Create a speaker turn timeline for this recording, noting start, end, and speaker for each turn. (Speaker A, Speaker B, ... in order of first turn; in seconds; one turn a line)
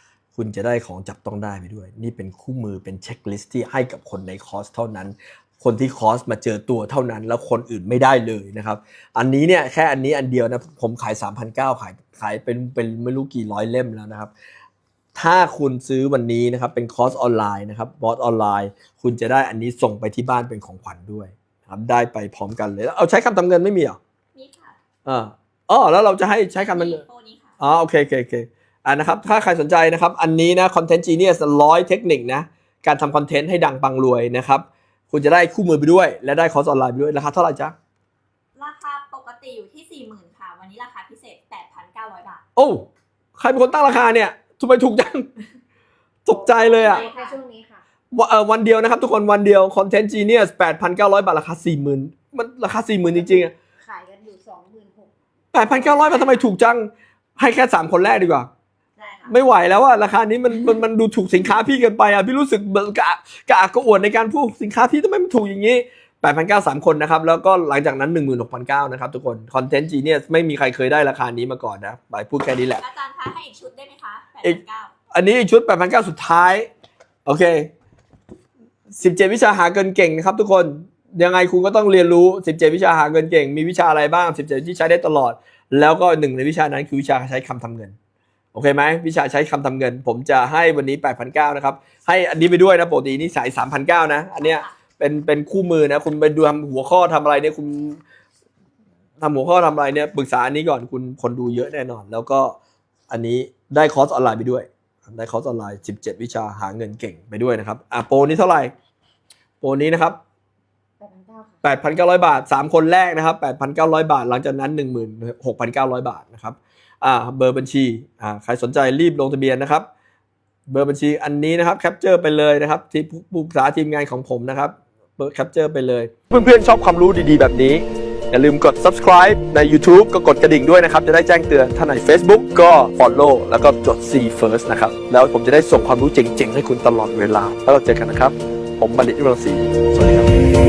Speaker A: 0.3-14.3
Speaker A: 15.1-24.0
Speaker B: 24.3-24.8
Speaker A: 25.0-27.0
Speaker B: 26.5-27.5
Speaker A: 27.6-37.7
Speaker B: 38.5-42.4
Speaker A: 42.5-42.9
Speaker A: 43.4-45.3
Speaker A: 46.2-47.1
Speaker C: 46.3-47.8
Speaker B: 46.6-47.4
Speaker A: 48.1-53.5
Speaker C: 53.1-55.1
Speaker A: 55.5-58.5
Speaker B: 55.7-56.4
Speaker B: 59.0-59.3
Speaker A: 59.3-72.8
Speaker B: 72.8-74.9
Speaker A: 75.1-76.7
Speaker A: 77.2-77.7
Speaker A: 78.9-87.9
Speaker A: 88.5-98.0
Speaker B: 94.4-94.7
Speaker A: 99.2-102.6
Speaker A: 103.1-108.7
Speaker A: 109.6-110.2
Speaker C: 111.0-111.6
Speaker A: 111.6-119.8
Speaker A: 120.7-140.3